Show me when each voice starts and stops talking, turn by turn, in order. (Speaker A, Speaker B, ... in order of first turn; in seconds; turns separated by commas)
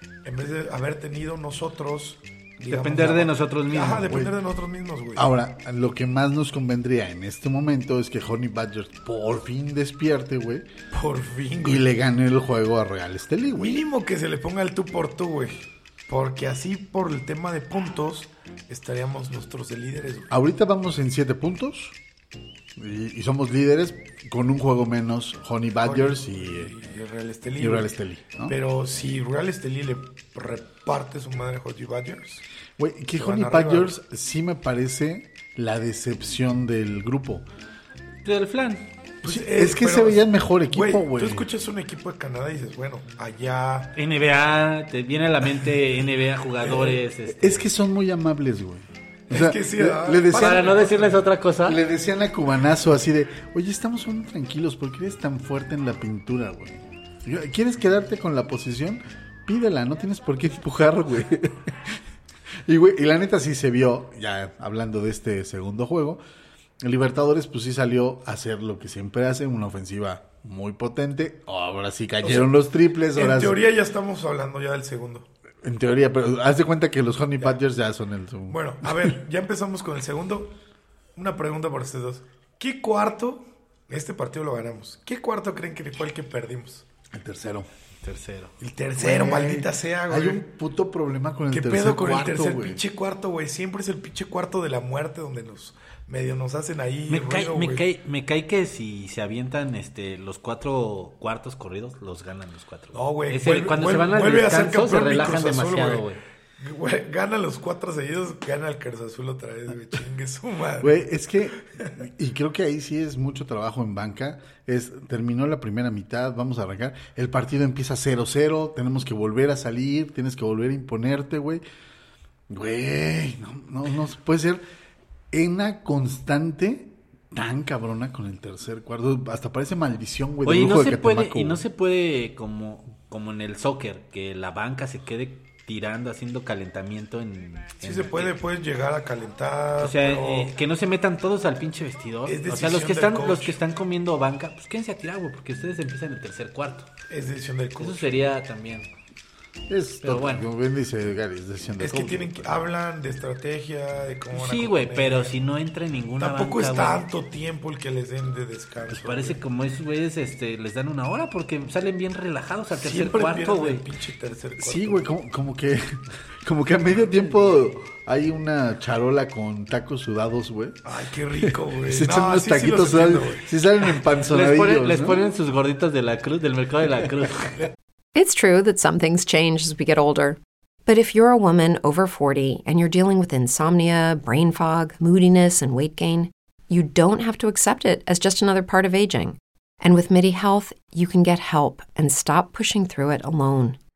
Speaker A: 0.2-5.3, Speaker B: 2.7-4.2, Speaker C: 4.1-4.4, Speaker C: 5.2-10.7, Speaker A: 10.9-11.9, Speaker C: 11.6-13.8, Speaker A: 13.6-20.3, Speaker C: 20.3-22.0, Speaker C: 22.8-26.7, Speaker A: 25.8-27.9, Speaker C: 27.6-28.6, Speaker A: 28.4-32.4, Speaker C: 32.8-37.5, Speaker A: 33.2-34.0, Speaker B: 38.2-38.9, Speaker C: 39.2-41.5, Speaker A: 39.2-44.0, Speaker B: 44.0-47.7, Speaker A: 46.7-47.0, Speaker C: 47.4-50.8, Speaker A: 49.3-51.3, Speaker B: 50.4-51.8, Speaker C: 51.6-62.0, Speaker C: 62.7-66.2, Speaker C: 66.8-73.6, Speaker A: 72.2-72.5, Speaker A: 73.1-75.3, Speaker C: 75.6-79.2, Speaker A: 78.5-80.6, Speaker A: 81.2-86.8, Speaker C: 87.1-87.7, Speaker B: 88.0-88.5, Speaker A: 88.6-90.4, Speaker C: 89.0-92.8, Speaker A: 91.5-97.8, Speaker B: 97.1-106.2, Speaker A: 102.9-106.1, Speaker A: 106.6-111.0, Speaker C: 110.8-121.6, Speaker C: 122.5-124.6, Speaker C: 125.3-131.6, Speaker B: 130.4-138.3, Speaker A: 137.8-140.5, Speaker B: 139.8-146.9, Speaker A: 142.3-143.6, Speaker A: 147.1-148.1, Speaker B: 147.8-148.9, Speaker C: 149.7-152.4, Speaker B: 150.0-150.5, Speaker A: 151.8-155.4, Speaker B: 154.3-157.0, Speaker A: 156.2-159.4, Speaker B: 158.9-163.9, Speaker A: 162.7-165.1, Speaker C: 164.6-175.3, Speaker A: 170.8-173.5, Speaker B: 174.3-177.6, Speaker D: 178.2-193.8